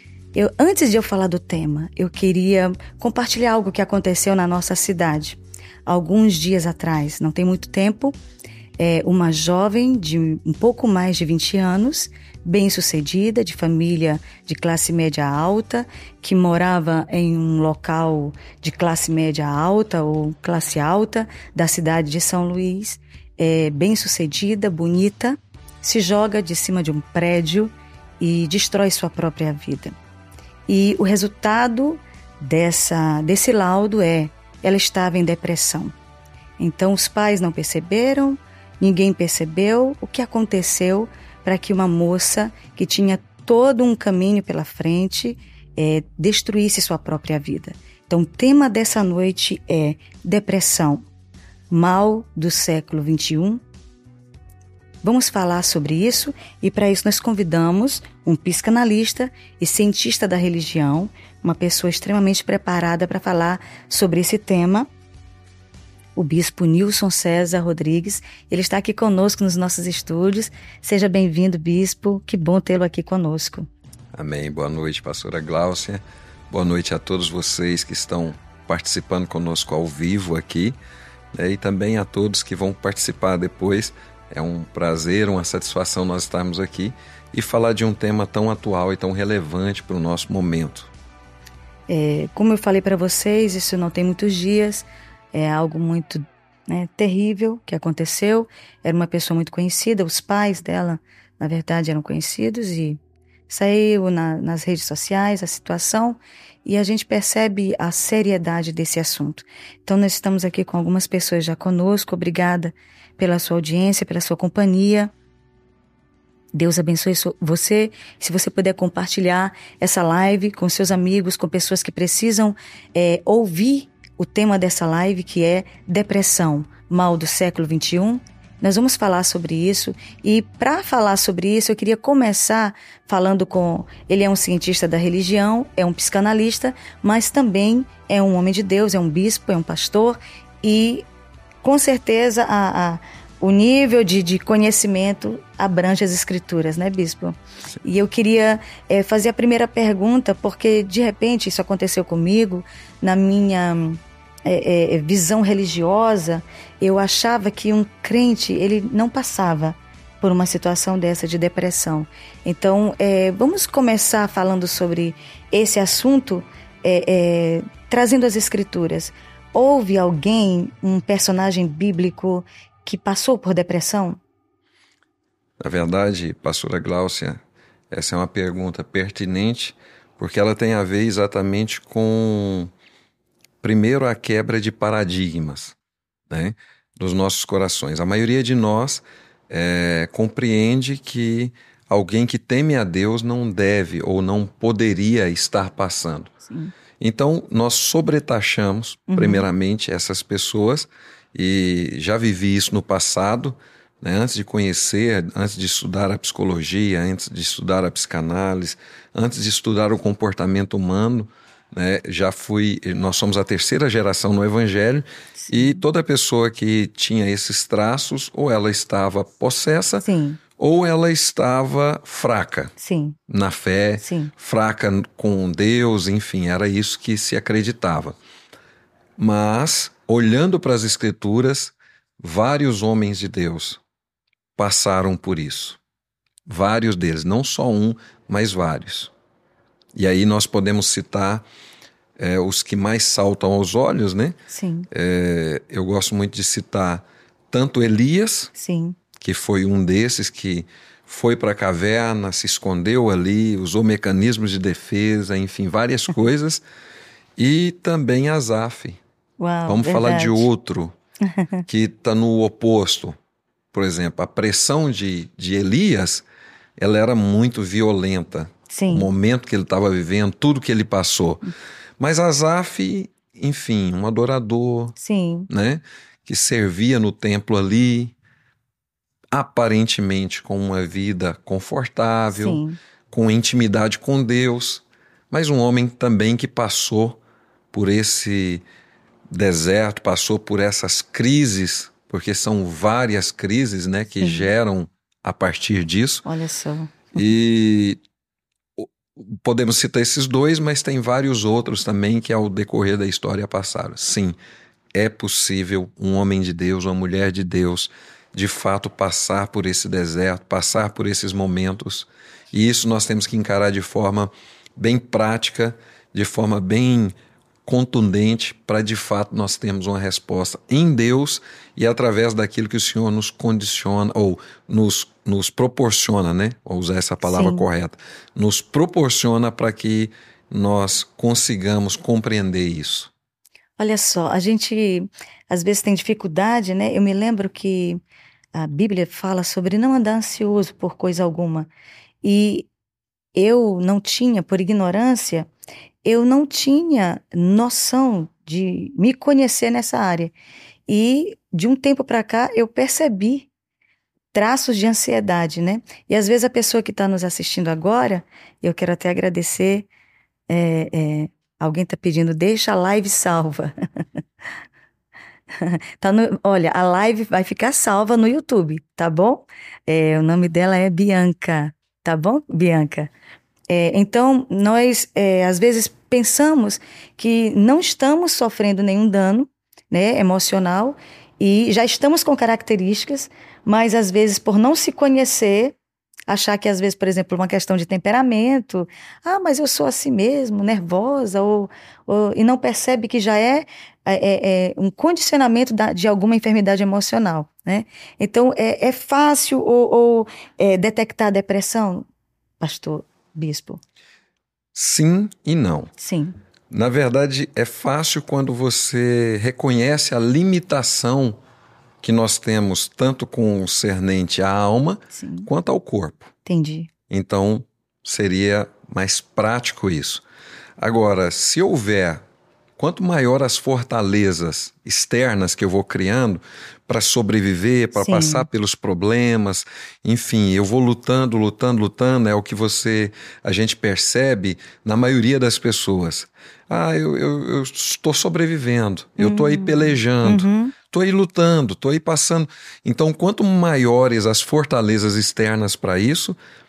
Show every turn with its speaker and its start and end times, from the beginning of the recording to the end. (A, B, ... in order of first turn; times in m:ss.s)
0:00.4-0:08.2 A
0:08.8-0:30.0 A
0:30.7-0:36.0 A
0:36.6-0:51.0 A
0:51.7-0:53.6 A
0:55.0-1:04.9 A
1:06.2-1:13.7 A
1:14.2-1:20.8 B
1:21.3-1:30.9 B
1:31.9-1:55.1 A
1:56.6-2:21.1 A
2:21.6-2:54.2 A
2:55.6-3:02.7 B
3:03.6-3:05.8 B
3:06.3-3:16.3 B
3:16.5-3:16.8 A
3:17.0-3:40.1 B
3:19.1-3:19.5 A
3:35.4-3:35.8 A
3:40.0-3:40.4 A
3:40.6-3:42.7 B
3:42.8-3:43.2 A
3:43.3-3:48.2 B
3:44.0-3:44.3 A
3:49.2-3:53.8 B
3:54.6-3:55.8 B
3:56.5-3:59.1 B
4:00.0-4:01.4 B
4:02.2-4:04.4 B
4:04.5-4:04.9 A
4:04.9-4:08.5 B
4:08.6-4:09.0 A
4:09.2-4:16.6 B
4:17.4-4:19.0 B
4:19.4-4:20.5 A
4:19.7-4:20.9 B
4:21.3-4:21.6 A
4:21.7-4:23.2 B
4:23.7-4:26.2 B
4:26.8-4:31.4 B
4:28.7-4:29.1 A
4:32.0-4:35.0 B
4:35.0-4:35.5 A
4:35.5-4:38.1 B
4:39.3-4:47.2 B
4:42.3-4:42.8 A
4:47.7-4:48.6 B
4:49.3-4:56.3 B
4:54.2-4:54.5 A
4:56.3-4:57.3 A
4:57.2-4:58.0 B
4:58.8-5:04.4 B
5:05.0-5:17.1 B
5:17.7-5:33.1 B
5:27.2-5:27.7 A
5:33.8-5:38.0 A
5:38.5-5:41.7 A
5:42.2-5:42.7 A
5:43.4-5:45.5 A
5:46.0-5:50.3 A
5:50.9-5:53.5 A
5:54.3-5:59.9 A
6:00.5-6:03.7 A
6:05.6-6:13.1 A
6:13.7-6:25.8 A
6:26.3-6:42.1 A
6:42.6-6:43.8 A
6:44.7-6:45.9 B
6:46.0-6:46.4 A
6:46.7-6:51.4 B
6:52.0-6:56.3 B
6:55.1-6:55.5 A
6:56.4-6:56.9 A
6:57.1-7:00.2 B
7:00.8-7:02.2 B
7:02.8-7:26.4 B
7:08.0-7:08.5 A
7:19.2-7:20.8 A